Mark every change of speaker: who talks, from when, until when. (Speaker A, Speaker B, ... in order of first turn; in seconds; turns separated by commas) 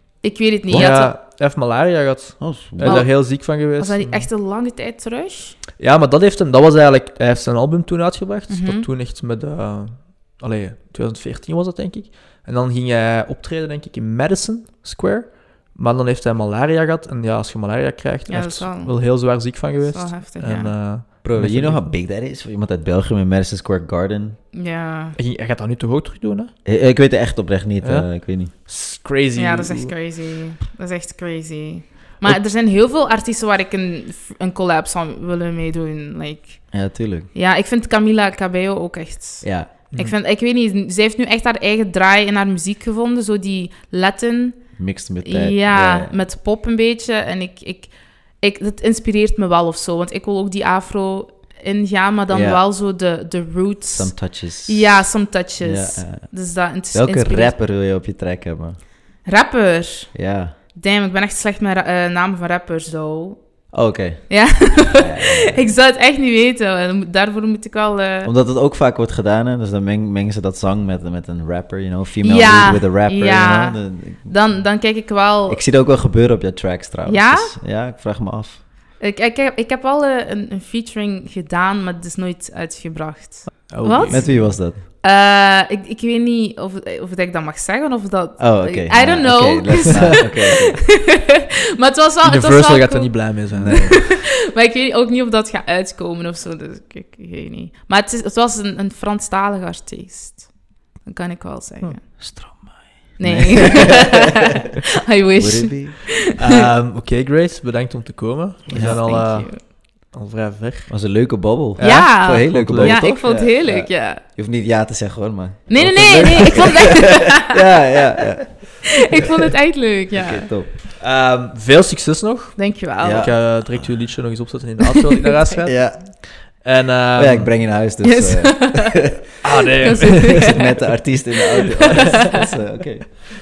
Speaker A: 0.2-1.1, Speaker B: 0.7-4.3, Speaker C: 2.4-3.1, Speaker A: 2.8-5.6, Speaker B: 5.8-21.9, Speaker A: 8.5-8.9, Speaker A: 18.3-20.7, Speaker C: 21.2-24.4, Speaker A: 24.5-25.2, Speaker B: 25.1-26.5, Speaker C: 26.6-28.5, Speaker B: 27.8-29.9, Speaker A: 29.3-36.8, Speaker C: 36.7-37.3, Speaker A: 37.3-57.5, Speaker C: 39.4-39.7, Speaker C: 44.8-46.1, Speaker C: 52.3-52.6, Speaker C: 53.9-55.0, Speaker C: 55.6-56.4, Speaker C: 56.9-58.8, Speaker A: 59.2-60.1, Speaker C: 60.1-60.5, Speaker A: 60.6-63.4, Speaker C: 63.7-65.6, Speaker A: 64.3-68.3, Speaker C: 68.2-74.6, Speaker A: 72.2-75.6, Speaker C: 75.5-78.6, Speaker A: 77.0-77.5, Speaker A: 79.0-102.2, Speaker B: 83.7-84.5, Speaker C: 84.1-84.8, Speaker C: 88.4-90.8, Speaker B: 92.2-94.2, Speaker C: 93.5-93.9, Speaker C: 102.2-104.2, Speaker A: 103.2-106.6, Speaker C: 105.4-106.1, Speaker B: 106.3-111.0, Speaker A: 108.7-109.6, Speaker C: 108.7-109.0, Speaker C: 110.9-119.3, Speaker B: 111.7-113.2, Speaker A: 111.8-114.2, Speaker A: 115.7-117.6, Speaker B: 115.8-116.6, Speaker A: 119.0-120.5, Speaker C: 120.1-120.7, Speaker B: 121.0-127.7, Speaker A: 122.5-123.4, Speaker C: 123.0-123.9, Speaker C: 125.6-126.2, Speaker C: 127.1-129.2, Speaker A: 128.0-130.7, Speaker B: 129.4-130.7, Speaker C: 129.9-133.1